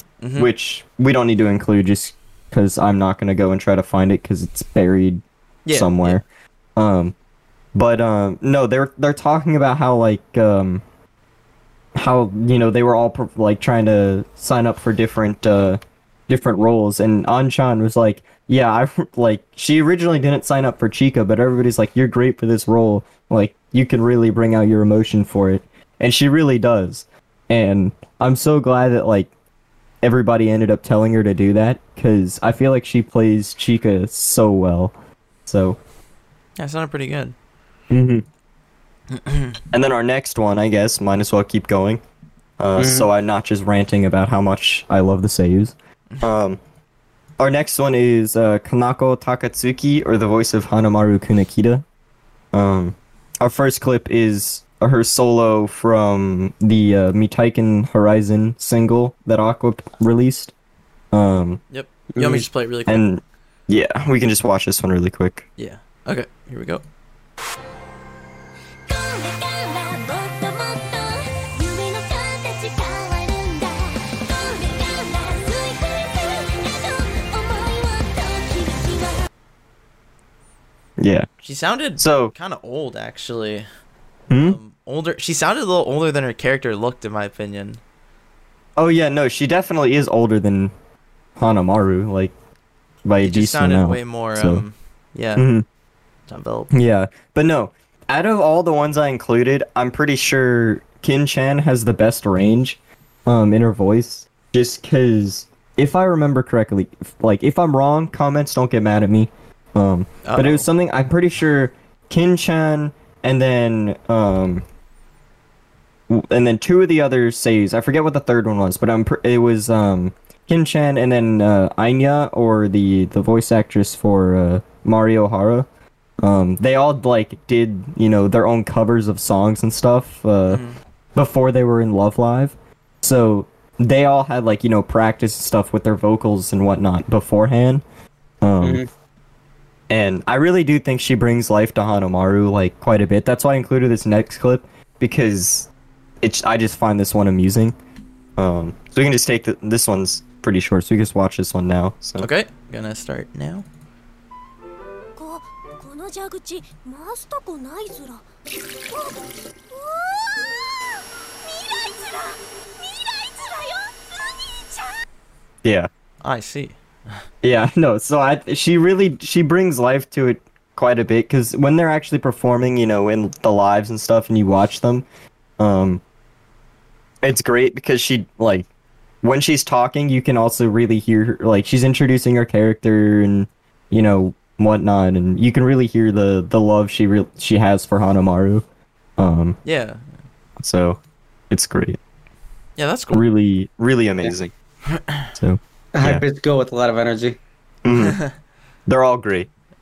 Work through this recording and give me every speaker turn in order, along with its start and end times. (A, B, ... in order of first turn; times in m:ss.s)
0:00.2-0:00.5 A
0:00.4-0:06.2 B
0:05.6-0:06.2 A
0:06.8-0:07.1 B
0:07.8-0:10.8 B
0:12.0-0:29.3 B
0:30.0-0:34.9 B
0:35.5-0:35.8 B
0:36.6-0:37.3 A
0:37.9-0:38.2 B
0:39.1-0:39.6 A
0:39.7-0:42.0 B
0:42.6-0:46.6 B
0:42.8-0:43.1 C
0:47.4-0:51.8 B
0:52.5-1:00.5 B
1:01.1-1:01.6 B
1:01.7-1:03.0 A
1:02.2-1:02.4 C
1:02.9-1:05.5 B
1:05.6-1:06.8 A
1:08.9-1:19.2 D
1:21.0-1:21.3 B
1:21.4-1:23.7 A
1:22.0-1:22.3 B
1:24.3-1:24.6 B
1:24.4-1:27.8 A
1:28.8-1:30.7 B
1:31.4-1:32.3 B
1:33.0-1:34.6 B
1:33.2-1:35.5 A
1:35.4-1:35.6 B
1:36.3-1:36.7 A
1:36.7-1:54.6 B
1:50.2-1:50.6 A
1:56.1-2:05.7 B
2:06.2-2:10.6 B
2:10.5-2:10.8 A
2:11.2-2:17.8 B
2:18.4-2:18.8 B
2:18.6-2:18.9 C
2:19.9-2:25.7 B
2:26.2-2:27.8 B
2:28.4-2:32.3 B
2:32.2-2:33.6 A
2:35.2-2:38.3 D
2:38.9-2:45.0 D
2:45.6-2:45.9 B
2:46.2-2:47.2 A
2:47.4-2:55.1 B
2:55.6-2:56.0 B
2:57.2-2:58.7 B
2:59.2-3:08.6 B
3:09.2-3:09.6 B
3:09.6-3:10.0 A
3:10.6-3:12.0 B
3:12.8-3:13.2 A
3:13.1-3:14.5 B
3:14.9-3:15.3 A
3:15.4-3:16.2 B
3:15.9-3:17.4 C
3:17.8-3:18.2 B
3:17.9-3:18.3 A
3:18.9-3:19.5 B